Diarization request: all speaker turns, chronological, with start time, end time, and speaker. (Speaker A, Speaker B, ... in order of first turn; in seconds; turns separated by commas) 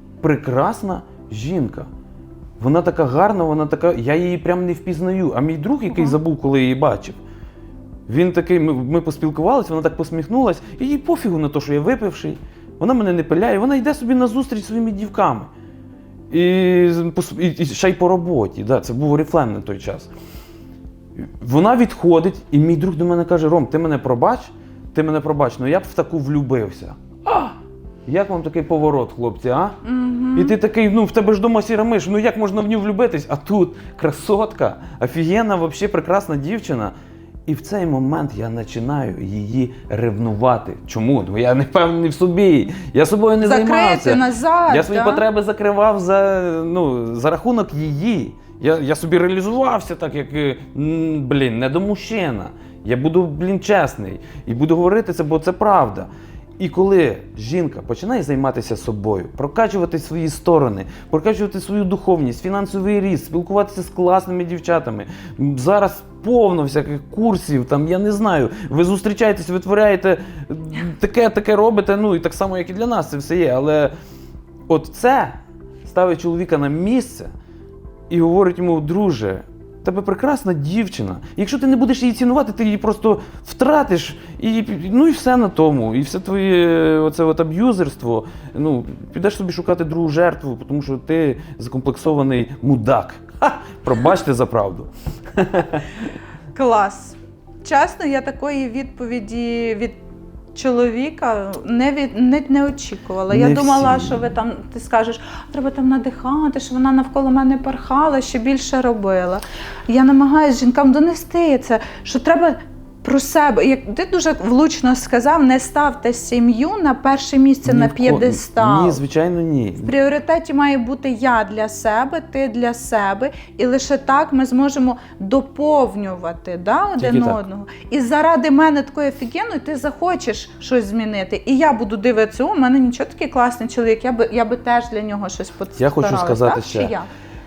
Speaker A: 0.2-1.9, Speaker A: 2.6-7.2, Speaker A: 8.1-15.5, Speaker A: 16.3-20.1, Speaker A: 21.2-29.8, Speaker B: 29.8-30.6, Speaker A: 30.3-36.9, Speaker A: 37.5-73.9, Speaker B: 43.4-45.2, Speaker A: 74.7-77.3, Speaker A: 78.1-95.9, Speaker B: 96.5-100.0, Speaker B: 100.5-119.0, Speaker A: 103.3-104.2, Speaker A: 117.7-119.9, Speaker B: 119.8-137.1, Speaker A: 127.0-127.4, Speaker A: 135.8-136.9